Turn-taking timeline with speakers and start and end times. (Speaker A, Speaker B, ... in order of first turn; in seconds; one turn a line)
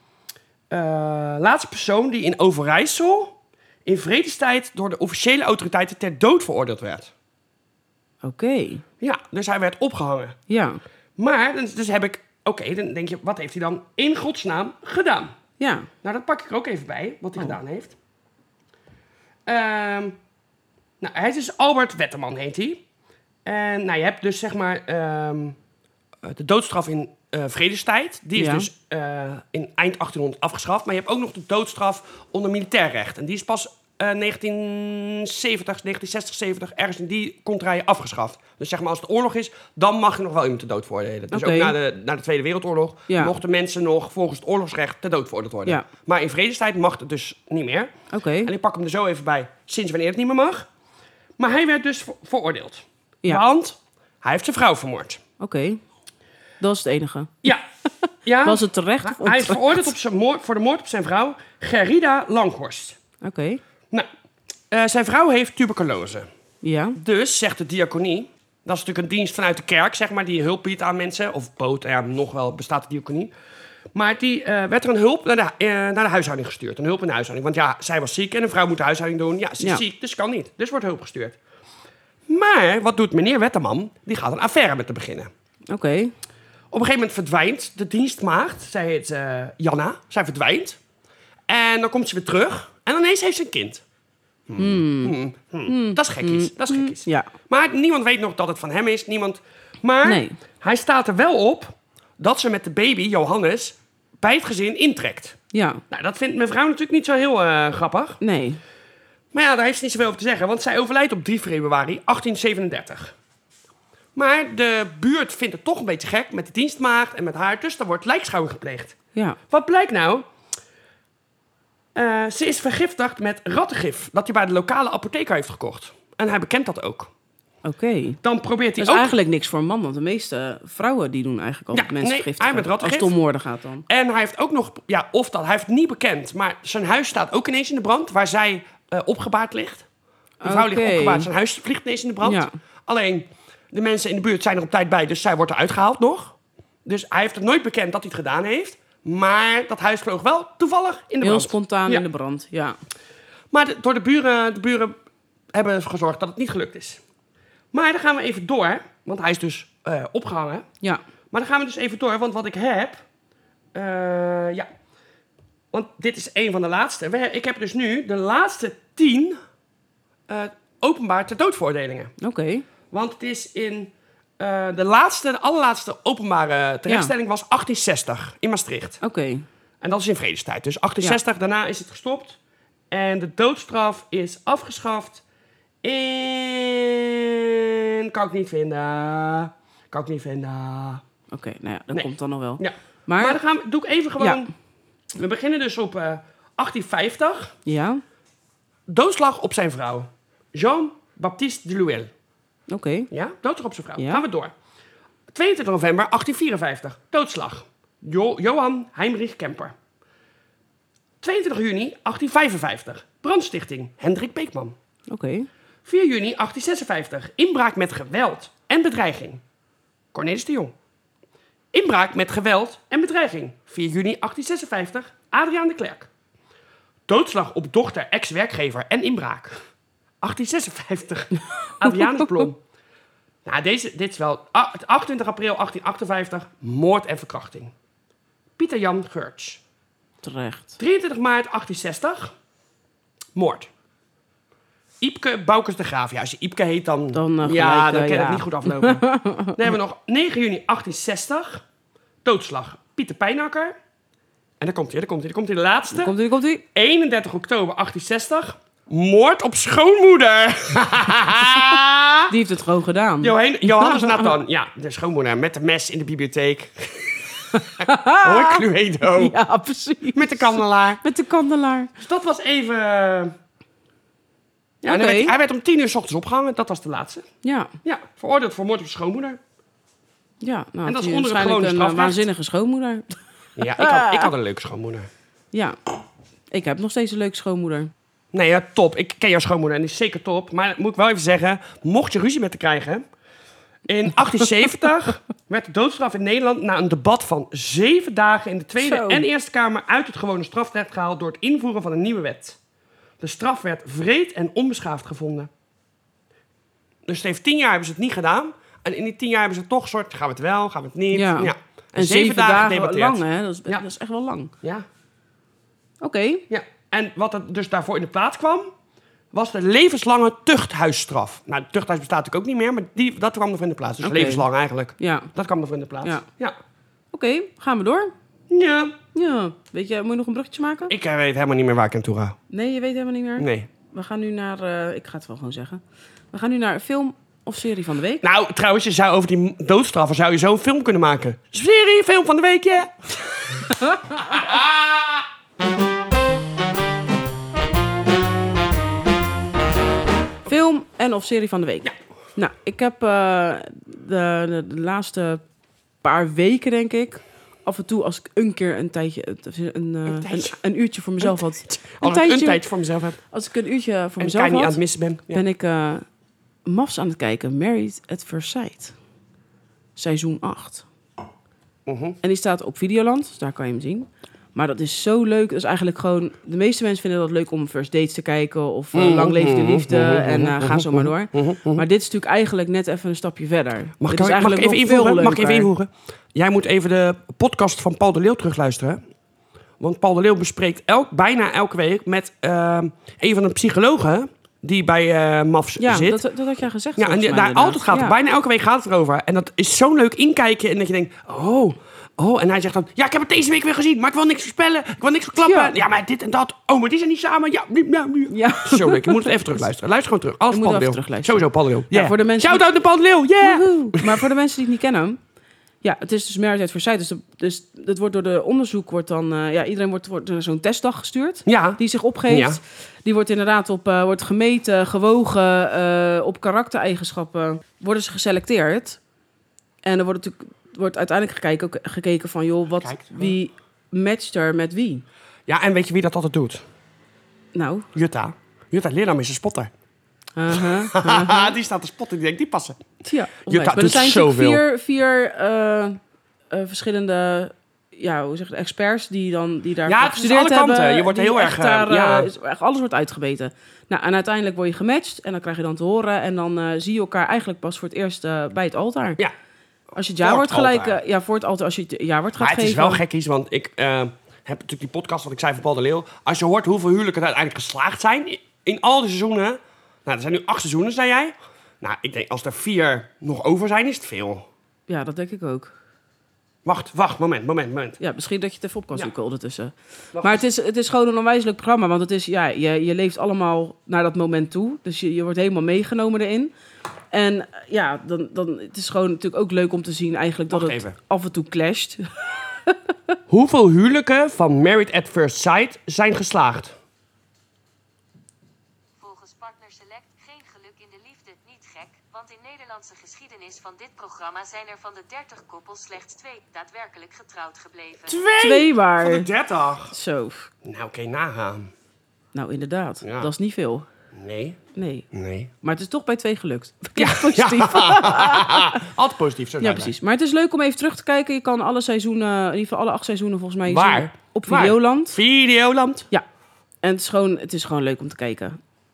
Speaker A: 0.7-7.1
Speaker B: 8.2-8.8
Speaker A: 9.0-10.4
Speaker B: 10.5-10.8
Speaker A: 11.2-15.3
Speaker B: 15.6-15.9
Speaker A: 16.0-18.0
Speaker A: 19.4-20.2
Speaker A: 21.0-22.8
Speaker A: 23.4-25.6
Speaker A: 26.2-47.9
Speaker B: 28.4-28.7
Speaker B: 41.3-41.8
Speaker B: 43.1-43.3
Speaker B: 48.1-48.5
Speaker A: 48.4-50.7
Speaker A: 51.4-55.2
Speaker B: 55.4-55.8
Speaker B: 56.6-57.5
Speaker A: 58.2-63.0
Speaker B: 58.4-59.9
Speaker B: 63.2-63.6
Speaker A: 64.7-66.3
Speaker B: 66.6-67.0
Speaker A: 67.0-73.3
Speaker A: 73.9-81.4
Speaker A: 82.3-85.3
Speaker B: 85.7-86.1
Speaker A: 86.7-90.8
Speaker A: 91.5-93.8
Speaker A: 94.5-105.4
Speaker B: 94.6-95.1
Speaker B: 95.7-97.3
Speaker B: 100.0-100.3
Speaker B: 105.5-105.8
Speaker A: 105.9-108.2
Speaker B: 108.2-108.6
Speaker A: 109.3-113.1
Speaker A: 114.1-119.0
Speaker A: 119.5-120.3
Speaker A: 121.9-127.1
Speaker B: 127.6-128.2
Speaker A: 128.2-129.1
Speaker B: 128.8-133.8
Speaker A: 131.7-133.1
Speaker A: 133.9-139.8
Speaker B: 140.4-141.3
Speaker A: 140.4-152.0
Speaker B: 142.2-142.5
Speaker B: 151.2-152.8
Speaker A: 153.5-154.9
Speaker A: 155.5-157.0
Speaker A: 157.7-160.7
Speaker A: 161.3-163.0
Speaker A: 163.7-164.7
Speaker A: 165.7-169.4
Speaker A: 170.3-172.1
Speaker B: 172.2-172.7
Speaker A: 172.9-179.0
Speaker B: 176.9-177.1
Speaker B: 179.0-179.4
Speaker A: 179.8-182.4
Speaker A: 182.9-185.2
Speaker A: 185.8-191.0
Speaker B: 191.3-193.4
Speaker A: 191.9-194.5
Speaker B: 194.2-194.4
Speaker A: 195.1-197.5
Speaker B: 197.6-198.0
Speaker A: 198.9-202.1
Speaker B: 202.7-203.1
Speaker A: 203.1-204.5
Speaker B: 204.0-204.2
Speaker A: 205.3-209.7
Speaker A: 211.2-214.7
Speaker B: 215.1-215.5
Speaker A: 215.8-219.4
Speaker A: 220.1-220.7
Speaker A: 221.7-226.1
Speaker A: 227.1-229.6
Speaker A: 230.2-232.6
Speaker B: 231.9-232.2
Speaker A: 233.4-237.7
Speaker A: 238.6-239.6
Speaker B: 240.2-240.8
Speaker A: 240.8-242.3
Speaker A: 243.3-243.7
Speaker A: 245.0-251.6
Speaker B: 247.1-249.6
Speaker A: 252.2-253.7
Speaker A: 254.6-256.1
Speaker B: 255.9-256.6
Speaker A: 256.7-262.3
Speaker B: 262.3-264.3
Speaker A: 263.2-269.4
Speaker B: 267.5-271.9
Speaker A: 270.1-271.0
Speaker A: 272.0-273.3
Speaker B: 274.8-275.3
Speaker A: 274.8-277.3
Speaker B: 277.4-277.7
Speaker A: 277.8-279.4
Speaker B: 280.4-284.3
Speaker A: 280.8-282.2
Speaker A: 283.6-285.1
Speaker B: 286.5-287.9
Speaker A: 288.3-293.0
Speaker A: 293.9-302.6
Speaker B: 298.8-299.2
Speaker A: 303.2-305.5
Speaker A: 307.1-313.9
Speaker B: 311.1-314.5
Speaker B: 316.0-316.4
Speaker A: 316.5-318.7
Speaker A: 319.3-326.6
Speaker B: 324.0-324.4
Speaker B: 325.0-325.3
Speaker B: 327.1-328.1
Speaker A: 328.5-328.9
Speaker B: 329.1-330.9
Speaker A: 330.9-332.4
Speaker B: 332.5-335.8
Speaker A: 333.4-333.7
Speaker B: 336.3-338.2
Speaker A: 338.2-345.2
Speaker B: 343.7-344.3
Speaker B: 350.4-355.4
Speaker B: 356.0-362.6
Speaker A: 360.1-360.6
Speaker A: 361.2-363.2
Speaker B: 363.3-366.0
Speaker A: 364.2-365.4
Speaker B: 366.6-368.9
Speaker B: 369.9-370.9
Speaker A: 371.9-372.2
Speaker B: 372.2-385.7
Speaker A: 378.9-381.8
Speaker A: 384.0-389.0
Speaker A: 389.8-396.2
Speaker B: 395.8-398.1
Speaker A: 397.0-414.3
Speaker B: 405.4-405.7
Speaker B: 408.3-409.4
Speaker B: 410.5-412.6
Speaker B: 413.4-415.2
Speaker B: 415.8-429.0
Speaker A: 421.4-422.6
Speaker B: 429.8-435.0
Speaker A: 432.8-433.4
Speaker A: 435.5-436.6
Speaker B: 437.5-437.9
Speaker A: 437.9-439.7
Speaker B: 440.4-441.5
Speaker A: 440.5-442.8
Speaker B: 443.0-446.0
Speaker A: 443.4-444.6
Speaker B: 446.5-459.2
Speaker A: 449.8-452.3
Speaker B: 459.9-463.0
Speaker A: 460.2-461.0
Speaker A: 462.4-474.4
Speaker B: 474.9-475.7
Speaker A: 476.6-478.0
Speaker B: 478.0-486.5
Speaker A: 480.1-480.4
Speaker B: 487.1-492.9
Speaker A: 490.5-490.9
Speaker A: 493.3-496.8
Speaker C: 499.0-508.2
Speaker A: 508.1-509.9
Speaker B: 508.4-509.3
Speaker B: 509.9-510.5
Speaker A: 510.6-511.7
Speaker B: 512.3-513.9
Speaker A: 513.0-513.3
Speaker A: 514.1-514.6
Speaker B: 514.7-515.0
Speaker A: 515.1-515.5
Speaker B: 515.6-518.8
Speaker A: 517.0-519.9
Speaker B: 519.6-525.2
Speaker A: 523.6-526.1
Speaker B: 526.8-528.6